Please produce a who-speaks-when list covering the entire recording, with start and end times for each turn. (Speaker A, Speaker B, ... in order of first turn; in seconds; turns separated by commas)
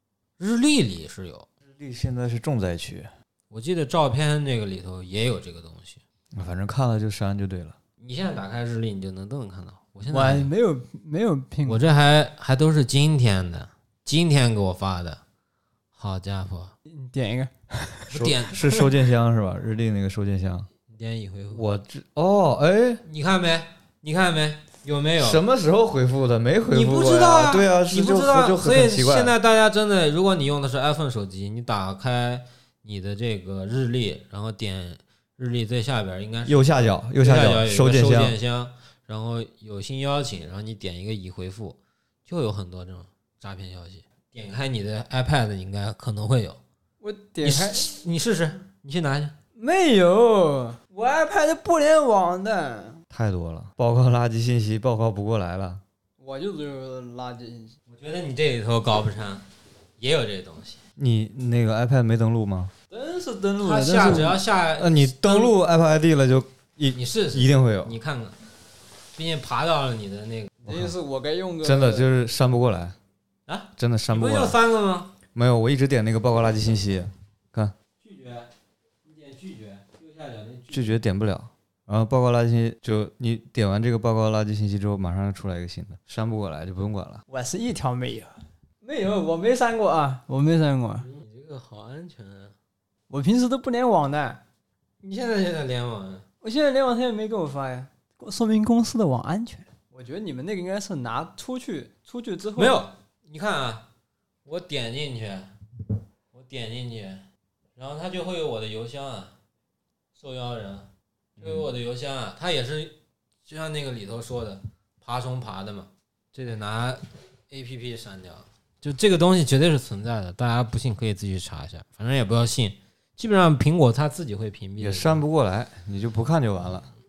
Speaker A: 0.4-1.5, Speaker B: 1.6-3.1, Speaker A: 3.5-6.0, Speaker B: 6.3-7.8, Speaker A: 8.0-10.5, Speaker C: 10.1-11.8, Speaker A: 11.6-15.2, Speaker A: 15.9-16.8, Speaker C: 16.9-18.9, Speaker A: 18.1-18.6, Speaker B: 18.1-20.7, Speaker A: 20.9-21.6, Speaker B: 21.5-23.0, Speaker A: 23.1-25.4, Speaker B: 25.2-29.4, Speaker A: 26.7-46.6, Speaker B: 36.5-38.4, Speaker C: 47.0-47.9, Speaker A: 47.4-49.4, Speaker C: 49.6-53.0, Speaker B: 53.1-55.8, Speaker C: 56.2-57.8, Speaker A: 57.9-59.5, Speaker A: 60.0-60.8, Speaker B: 61.0-62.7, Speaker C: 62.9-64.4, Speaker A: 63.6-65.5, Speaker B: 64.8-68.0, Speaker A: 66.9-68.4, Speaker A: 69.1-70.8, Speaker C: 70.7-72.1, Speaker B: 71.6-73.0, Speaker A: 73.5-75.1, Speaker B: 73.8-74.6, Speaker B: 75.3-77.8, Speaker A: 78.0-78.5, Speaker A: 79.0-81.0, Speaker B: 80.7-87.2, Speaker C: 87.3-91.1, Speaker A: 91.0-92.5, Speaker C: 93.1-94.4, Speaker A: 95.0-96.2, Speaker C: 96.4-102.8, Speaker A: 102.6-103.9, Speaker A: 104.5-105.5, Speaker A: 106.3-109.3, Speaker A: 110.2-125.2, Speaker B: 111.4-111.6, Speaker B: 124.8-126.9